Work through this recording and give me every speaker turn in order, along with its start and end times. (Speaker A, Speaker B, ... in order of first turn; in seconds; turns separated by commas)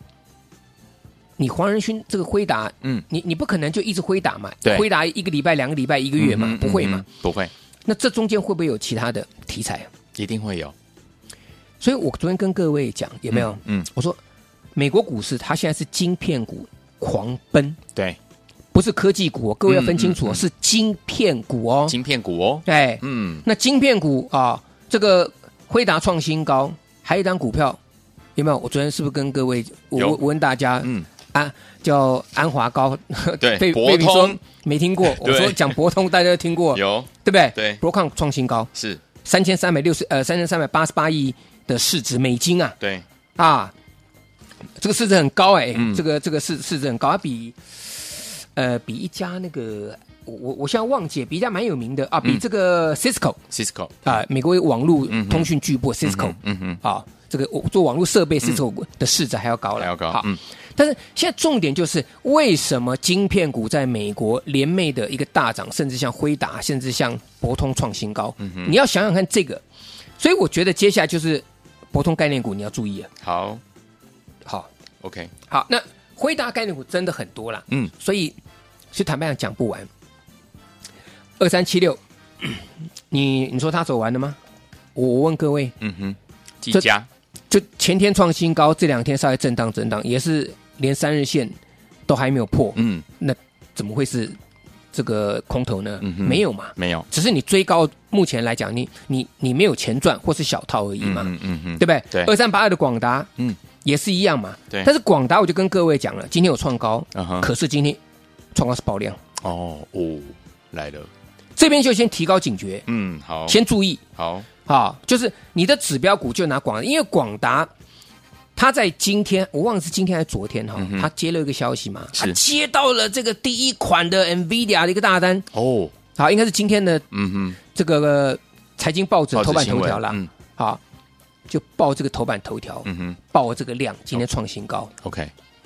Speaker A: 1.4-7.0, Speaker B: 6.2-7.5, Speaker A: 7.9-9.9, Speaker B: 10.2-10.7, Speaker A: 11.8-14.2, Speaker B: 13.3-13.9, Speaker A: 14.8-17.8, Speaker A: 18.7-22.0, Speaker B: 19.7-20.4, Speaker B: 21.9-23.4, Speaker A: 22.6-27.8, Speaker A: 28.4-38.7, Speaker B: 29.9-30.2, Speaker B: 33.4-34.4, Speaker B: 35.1-35.8, Speaker B: 36.7-37.8, Speaker B: 38.8-39.0, Speaker A: 39.2-42.8, Speaker B: 42.8-43.0, Speaker A: 43.4-43.7, Speaker A: 44.8-53.4, Speaker B: 45.8-46.0, Speaker B: 53.5-54.1, Speaker A: 54.0-69.6, Speaker B: 55.1-55.5, Speaker B: 56.0-56.8, Speaker B: 59.8-60.4, Speaker B: 68.4-68.8, Speaker A: 70.2-73.1, Speaker B: 73.2-73.6, Speaker B: 75.0-75.3, Speaker A: 75.5-78.4, Speaker A: 78.9-79.9, Speaker A: 81.4-84.4, Speaker A: 84.9-85.8, Speaker B: 85.8-87.1, Speaker A: 87.5-94.4, Speaker B: 92.8-93.0, Speaker A: 94.9-103.3, Speaker B: 96.0-97.1, Speaker B: 101.0-102.3, Speaker A: 103.8-108.0, Speaker B: 107.2-107.5, Speaker A: 108.5-109.2, Speaker B: 109.4-111.1, Speaker A: 111.6-112.8, Speaker B: 112.9-113.6, Speaker A: 113.5-114.0, Speaker B: 114.2-114.5, Speaker A: 114.7-117.7, Speaker A: 118.6-125.5, Speaker B: 120.8-121.1, Speaker B: 125.5-125.9, Speaker A: 126.2-127.1, Speaker B: 127.1-127.6, Speaker A: 127.7-130.8, Speaker B: 129.3-130.3, Speaker A: 131.5-134.9, Speaker B: 132.8-133.2, Speaker B: 135.0-135.3